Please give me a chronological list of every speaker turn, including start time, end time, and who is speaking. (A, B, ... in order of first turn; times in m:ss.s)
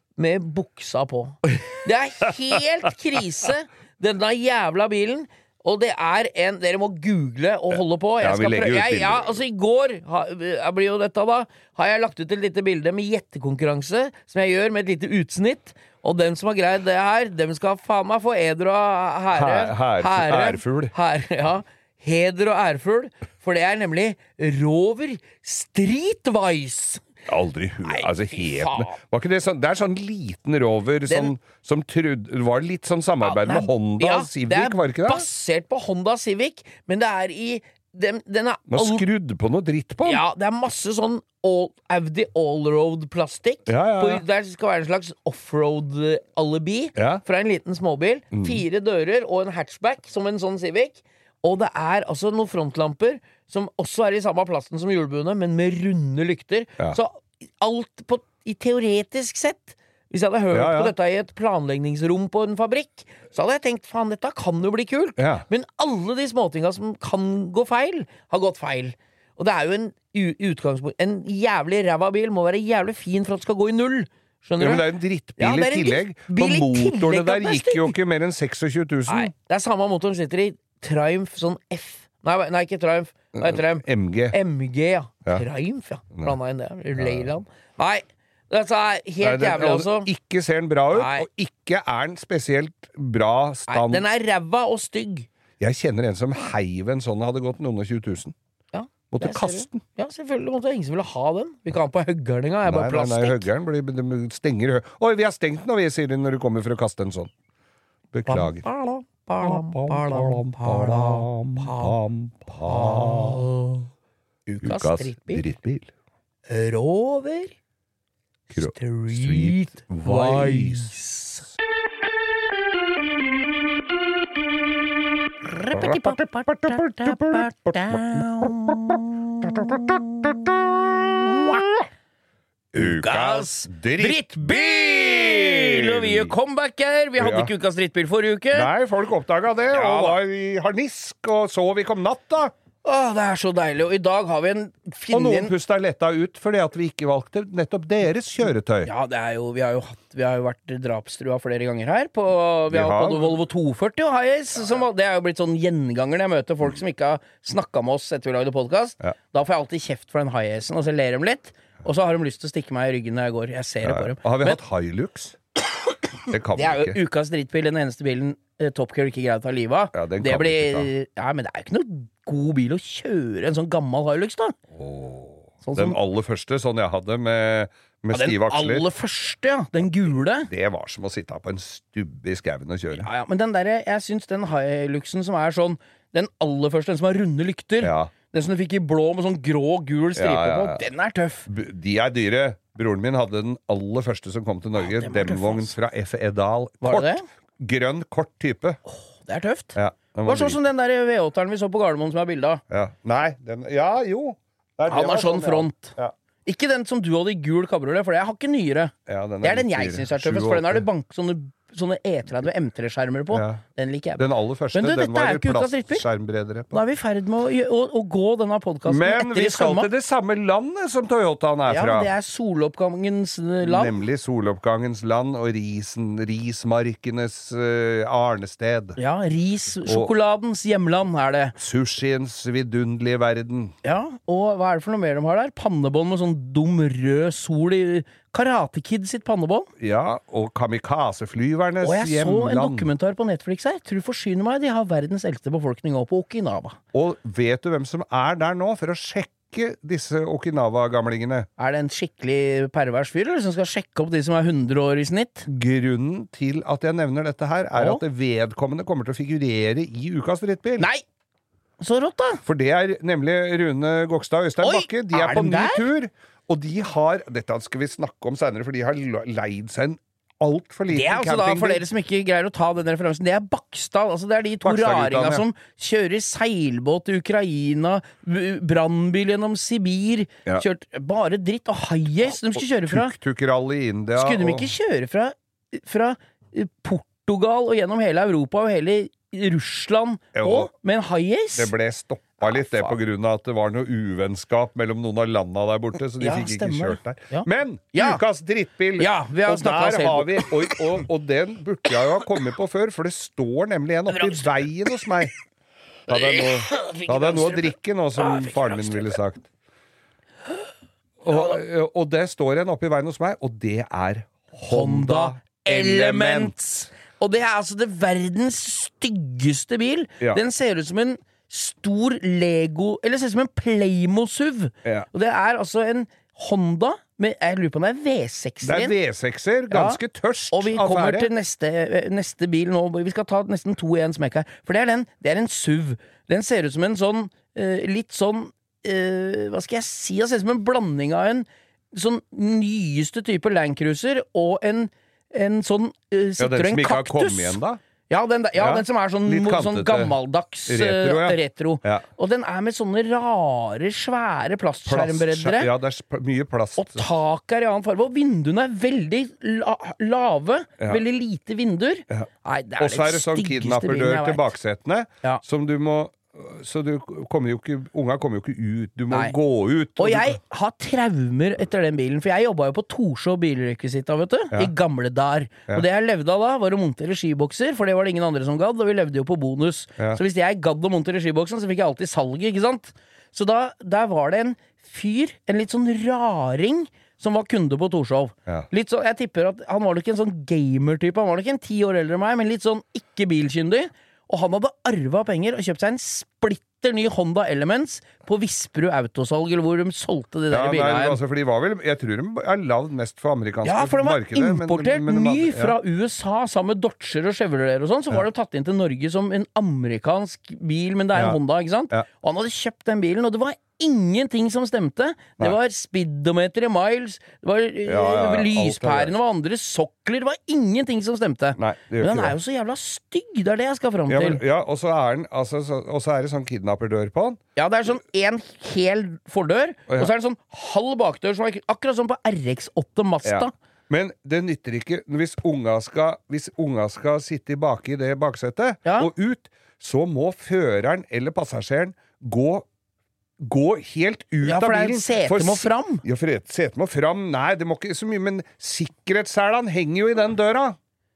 0:00.2-0:27.0 A
0:07.7-0:09.4 B
0:19.3-0:20.9 B
0:27.3-0:35.2 B
0:27.8-0:29.0 A
0:31.1-0:31.3 A
0:33.2-0:39.0 A
0:38.7-0:40.2 B
0:40.0-1:18.0 A
0:43.7-0:44.2 B
0:47.0-0:47.2 B
0:48.3-0:48.6 B
1:00.5-1:00.9 B
1:05.2-1:05.4 B
1:14.6-1:19.3 B
1:19.1-1:30.1 A
1:23.4-1:24.4 B
1:27.0-1:27.3 B
1:29.2-1:34.0 B
1:30.9-1:31.2 A
1:33.7-1:35.3 A
1:35.6-1:38.3 B
1:38.7-1:43.5 A
1:39.1-1:39.8 B
1:42.6-1:47.3 B
1:48.1-1:48.6 B
1:48.3-1:52.0 A
1:49.4-1:53.4 B
1:52.6-1:53.9 A
1:54.5-1:55.5 A
1:54.6-1:55.9 B
1:56.5-1:57.5 A
1:58.5-2:01.5 A
1:58.5-2:00.9 B
2:05.4-2:10.5 A
2:05.7-2:08.9 B
2:09.4-2:11.6 B
2:11.0-2:11.7 A
2:12.7-2:16.3 B
2:12.8-2:18.7 A
2:17.2-2:17.5 B
2:18.5-2:22.5 B
2:19.7-2:20.2 A
2:22.8-2:25.5 A
2:25.1-2:28.9 B
2:28.8-2:44.6 A
2:32.7-2:33.4 B
2:43.8-2:45.4 B
2:46.3-2:47.0 B
2:46.5-2:54.6 A
2:49.9-2:50.9 B
2:54.7-2:58.8 B
2:55.6-2:56.0 A
2:58.1-3:00.5 A
3:00.5-3:03.1 B
3:02.9-3:11.5 A
3:07.8-3:08.1 B
3:10.2-3:10.8 B
3:11.4-3:18.8 B
3:14.8-3:15.7 A
3:16.8-3:17.2 A
3:18.9-3:22.6 A
3:19.8-3:20.6 B
3:22.7-3:26.1 B
3:24.9-3:25.9 A
3:26.4-3:36.0 A
3:29.1-3:30.8 B
3:33.3-3:33.6 B
3:34.2-3:36.8 B
3:36.7-3:39.9 A
3:38.8-3:42.1 B
3:41.7-3:44.0 A
3:43.6-3:49.0 B
3:49.0-3:51.6 A
3:49.8-3:50.1 B
3:51.6-3:53.7 B
3:53.8-3:59.7 A
3:59.8-4:02.9 B
4:01.8-4:06.8 A
4:06.9-4:11.5 B
4:11.6-4:15.5 A
4:15.4-4:20.9 B
4:17.7-4:18.0 A
4:20.8-4:21.0 A
4:21.8-4:22.4 A
4:22.4-4:31.8 B
4:24.6-4:25.9 A
4:30.9-4:43.1 A
4:34.6-4:35.4 B
4:42.3-4:44.7 B
4:44.1-4:51.7 A
4:50.3-4:50.7 B
4:51.6-5:05.3 B
4:52.4-4:52.9 A
4:56.2-4:58.2 A
4:59.0-5:00.6 A
5:04.1-5:04.5 A
5:06.1-5:09.5 B
5:06.1-5:09.2 A
5:11.2-5:16.9 B
5:14.6-5:28.9 A
5:28.6-5:31.3 B
5:29.7-5:30.0 A
5:30.5-5:55.7 A
5:46.4-5:47.8 B
5:48.6-5:50.2 B
5:50.7-5:52.0 B
5:54.8-5:57.0 B
5:56.8-6:04.5 A
6:02.1-6:10.4 B
6:09.1-6:09.4 A
6:10.0-6:41.2 A
6:40.5-6:45.8 B
6:43.6-7:04.4 A
6:51.1-6:51.4 B
6:57.8-6:59.1 B
7:01.6-7:02.4 B
7:04.1-7:07.4 B
7:07.6-7:13.5 A
7:13.2-7:22.7 B
7:18.8-7:19.1 A
7:23.4-7:30.8 B
7:24.4-7:26.0 A